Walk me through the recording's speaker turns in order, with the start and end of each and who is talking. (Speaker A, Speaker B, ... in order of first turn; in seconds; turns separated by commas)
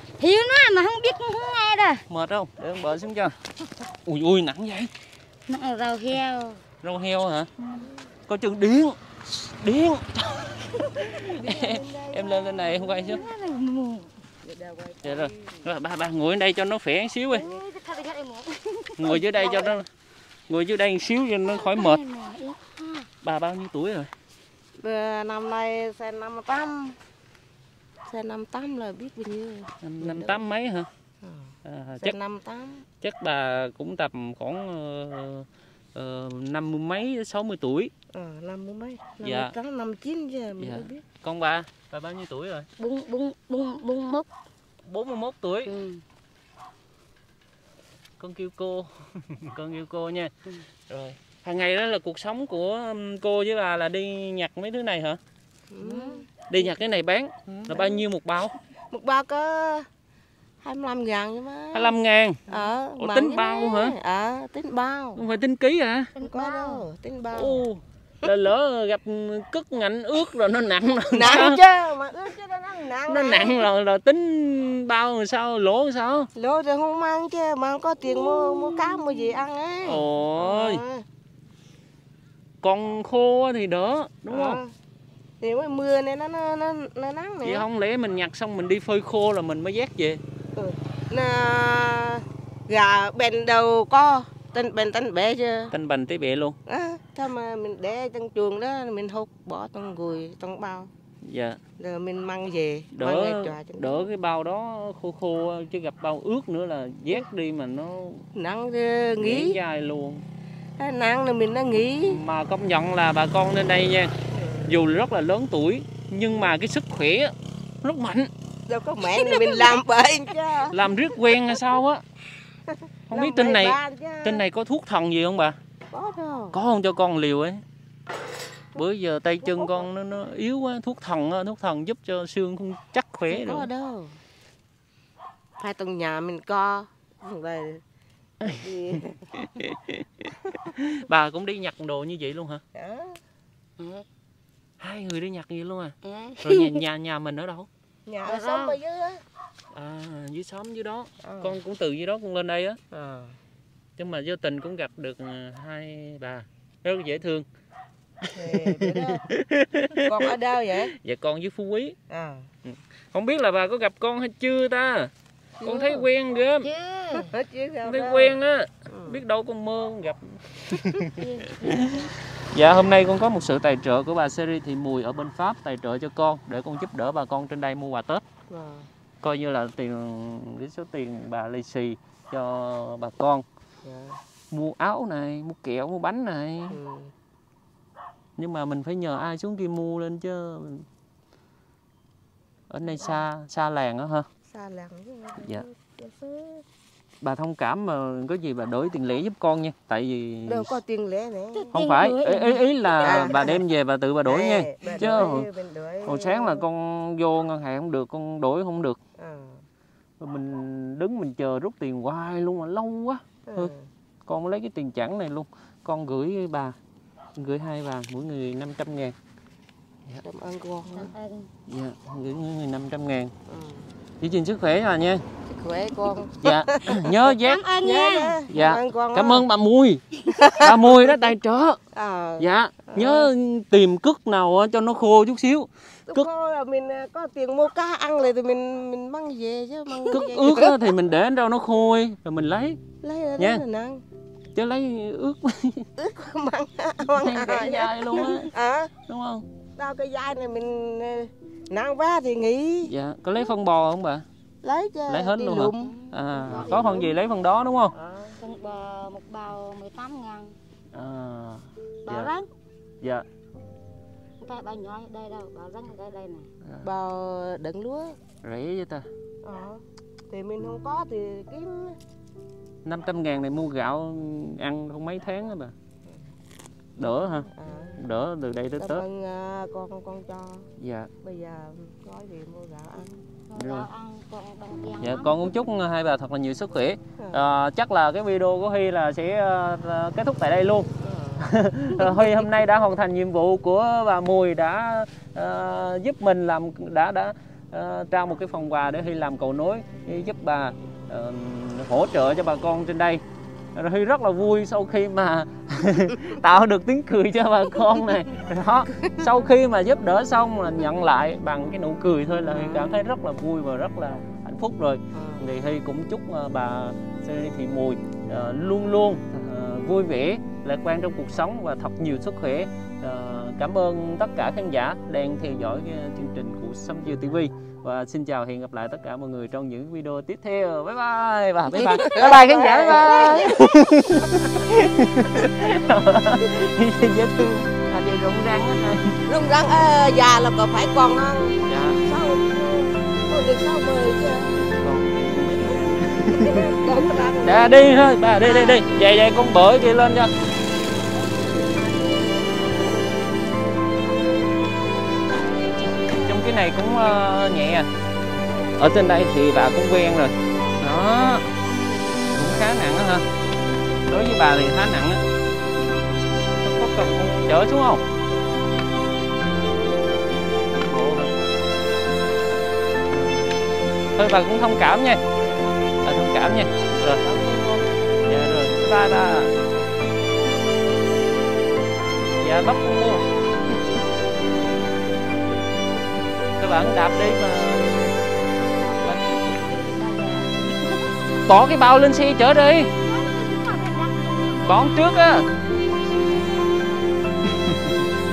Speaker A: 0.2-2.0, Speaker B: 2.1-3.3, Speaker B: 4.0-4.9, Speaker A: 5.5-6.6, Speaker B: 6.8-7.5, Speaker B: 8.3-13.2, Speaker C: 11.2-12.9, Speaker A: 12.8-14.1, Speaker C: 14.4-15.5, Speaker B: 15.0-17.4, Speaker A: 17.3-19.5, Speaker B: 19.0-19.9, Speaker B: 20.5-22.0, Speaker A: 21.5-23.1, Speaker B: 23.2-24.1, Speaker C: 24.8-27.0, Speaker C: 28.1-30.4, Speaker B: 29.8-30.9, Speaker C: 31.2-32.8, Speaker B: 31.6-32.1, Speaker B: 33.0-37.9, Speaker C: 38.1-41.0, Speaker B: 39.2-39.5, Speaker B: 40.6-42.7, Speaker A: 42.8-44.3, Speaker B: 44.8-45.7, Speaker A: 45.6-46.0, Speaker B: 48.2-50.3, Speaker B: 50.9-55.2, Speaker C: 55.7-56.3, Speaker A: 55.8-56.2, Speaker B: 56.5-58.5, Speaker C: 57.5-58.0, Speaker C: 58.9-59.9, Speaker C: 60.6-61.9, Speaker B: 61.7-62.4, Speaker C: 62.5-65.2, Speaker B: 63.0-64.0, Speaker B: 65.2-66.1, Speaker A: 66.2-66.8, Speaker C: 66.2-67.6, Speaker B: 67.3-71.6, Speaker C: 71.1-73.7, Speaker B: 73.0-76.3, Speaker C: 76.3-81.0, Speaker B: 79.8-80.8, Speaker B: 82.6-84.6, Speaker C: 84.3-84.7, Speaker C: 85.4-87.6, Speaker B: 87.4-90.2, Speaker C: 90.5-95.7, Speaker B: 95.7-96.6, Speaker C: 96.7-100.9, Speaker B: 101.2-101.6, Speaker C: 101.8-104.1, Speaker B: 102.9-108.2, Speaker C: 108.3-109.6, Speaker B: 109.2-110.2, Speaker C: 110.8-112.2, Speaker B: 112.0-114.1, Speaker C: 114.3-114.7, Speaker B: 114.7-118.3, Speaker C: 118.7-120.8, Speaker B: 120.7-122.0, Speaker C: 123.1-124.4, Speaker B: 123.1-125.6, Speaker C: 125.9-126.6, Speaker B: 126.5-127.6, Speaker B: 128.7-133.7, Speaker C: 129.4-129.9, Speaker C: 133.3-134.2, Speaker C: 135.6-137.8, Speaker C: 138.5-139.2, Speaker B: 139.4-142.6, Speaker C: 142.7-143.2, Speaker B: 144.8-147.7, Speaker C: 148.1-149.2, Speaker A: 148.2-148.7, Speaker B: 149.7-152.8, Speaker C: 151.2-151.6, Speaker C: 152.9-153.4, Speaker B: 154.0-157.4, Speaker C: 158.3-159.2, Speaker B: 158.4-160.3, Speaker C: 160.0-160.9, Speaker B: 160.8-162.0, Speaker C: 162.1-162.5, Speaker B: 162.6-166.7, Speaker C: 165.6-166.1, Speaker A: 166.6-167.2, Speaker C: 167.2-168.4, Speaker B: 167.8-178.2, Speaker C: 168.9-169.2, Speaker A: 171.2-172.1, Speaker C: 178.5-178.9, Speaker B: 179.2-183.4, Speaker C: 183.8-184.2, Speaker B: 184.5-186.8, Speaker C: 186.7-187.1, Speaker B: 188.4-190.8, Speaker B: 192.7-194.3, Speaker C: 194.4-196.6, Speaker B: 195.4-195.7, Speaker B: 197.2-200.7, Speaker C: 200.5-201.8, Speaker A: 201.6-203.5, Speaker B: 201.7-205.5, Speaker C: 203.0-203.6, Speaker C: 204.2-206.6, Speaker B: 206.0-209.0, Speaker C: 209.2-209.6, Speaker B: 210.2-213.7, Speaker C: 213.5-213.9, Speaker B: 214.2-216.8, Speaker B: 217.4-219.1, Speaker C: 220.2-221.1, Speaker A: 220.9-221.5, Speaker B: 221.7-223.3, Speaker C: 223.5-223.9, Speaker B: 224.2-225.2, Speaker C: 225.5-227.2, Speaker B: 226.4-227.6, Speaker A: 227.5-228.5, Speaker C: 227.8-229.4, Speaker B: 228.5-231.8, Speaker C: 230.3-231.1, Speaker C: 231.9-233.3, Speaker B: 232.4-236.3, Speaker C: 236.1-240.9, Speaker B: 240.1-242.8, Speaker C: 243.0-244.0, Speaker B: 243.4-243.6, Speaker B: 244.5-245.9, Speaker C: 246.0-248.9, Speaker B: 247.2-248.5, Speaker B: 249.1-249.4, Speaker C: 249.8-252.9, Speaker B: 252.8-254.2, Speaker C: 254.6-256.0, Speaker B: 255.1-257.9, Speaker A: 255.8-257.1, Speaker C: 256.5-257.0, Speaker C: 257.9-258.4, Speaker A: 258.4-260.5, Speaker B: 260.9-262.3, Speaker A: 262.1-262.5, Speaker A: 264.4-266.5, Speaker C: 266.8-268.2, Speaker B: 268.4-269.1, Speaker C: 269.4-272.0, Speaker B: 272.8-275.7, Speaker B: 277.0-279.0, Speaker C: 277.4-278.0, Speaker C: 278.8-280.7, Speaker B: 280.8-281.1, Speaker C: 281.2-283.2, Speaker A: 283.5-285.4, Speaker B: 283.5-283.9, Speaker B: 285.0-303.2, Speaker C: 287.2-287.4, Speaker C: 291.0-292.3, Speaker B: 303.7-339.2, Speaker C: 312.5-312.9, Speaker C: 315.1-315.5, Speaker C: 331.7-334.2, Speaker C: 339.3-344.5, Speaker B: 341.7-342.0, Speaker B: 344.6-346.8, Speaker C: 346.3-347.8, Speaker B: 347.4-350.3, Speaker A: 355.4-355.7, Speaker B: 355.8-357.9, Speaker C: 358.4-358.7, Speaker B: 358.8-361.5, Speaker B: 362.3-363.3, Speaker B: 364.1-365.2, Speaker B: 366.6-368.0, Speaker B: 370.7-371.3, Speaker B: 373.1-373.6, Speaker B: 374.1-375.2, Speaker B: 376.0-377.2, Speaker C: 377.2-377.9, Speaker B: 378.2-379.5, Speaker B: 382.4-383.2, Speaker B: 386.6-388.1, Speaker A: 389.4-391.3, Speaker B: 391.5-392.9, Speaker A: 393.1-394.8, Speaker B: 394.6-395.5